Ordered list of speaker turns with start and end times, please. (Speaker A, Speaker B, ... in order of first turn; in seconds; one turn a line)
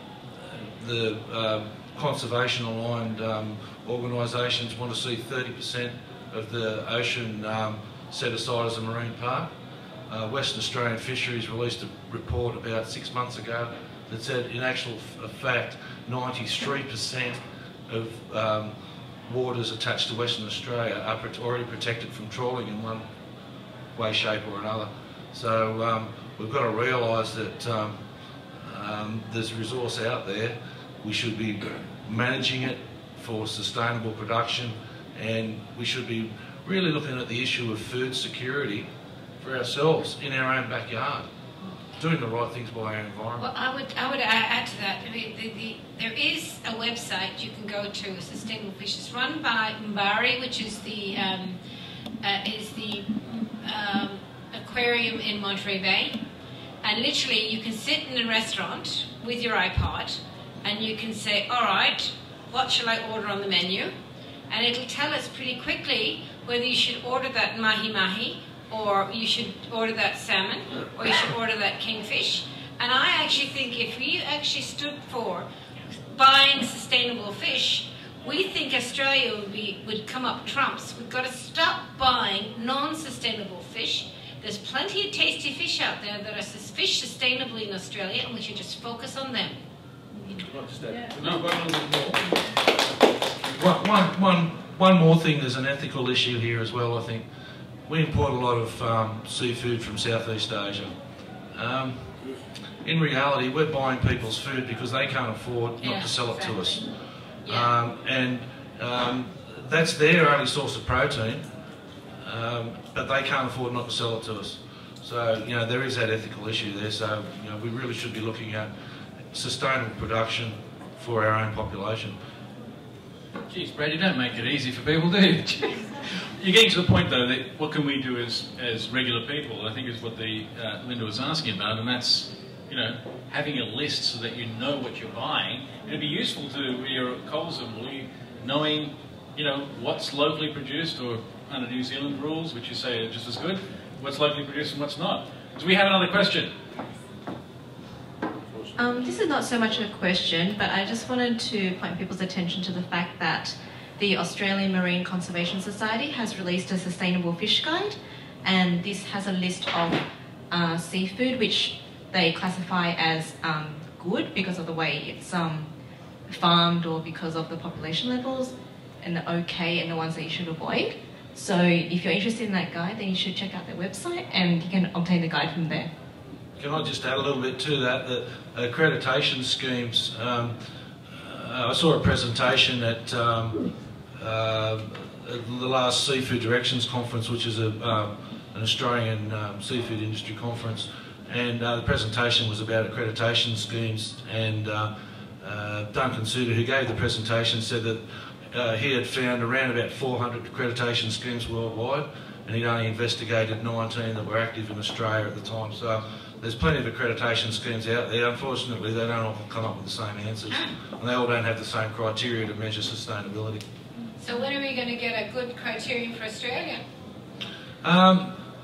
Speaker A: 0.5-9.5
Speaker A: 10.1-18.7
Speaker A: 19.2-23.1
Speaker A: 23.9-28.0
Speaker A: 28.6-38.9
Speaker A: 39.4-41.3
Speaker A: 42.0-43.5
Speaker B: 43.4-51.6
Speaker B: 52.2-56.2
Speaker B: 56.8-63.9
Speaker B: 64.5-75.5
Speaker B: 76.1-89.6
Speaker C: 91.1-92.2
Speaker A: 91.2-91.5
Speaker A: 93.6-97.3
Speaker A: 97.9-100.9
Speaker A: 101.5-102.0
Speaker A: 102.8-106.8
Speaker B: 105.8-106.8
Speaker B: 107.5-107.7
Speaker A: 107.5-111.5
Speaker A: 112.2-118.7
Speaker A: 119.3-122.2
Speaker C: 123.5-146.5
Speaker D: 148.8-165.7
Speaker D: 166.3-175.9
Speaker A: 176.6-180.6
Speaker A: 181.1-183.6
Speaker A: 184.2-213.6
Speaker B: 214.2-216.8
Speaker A: 217.8-218.4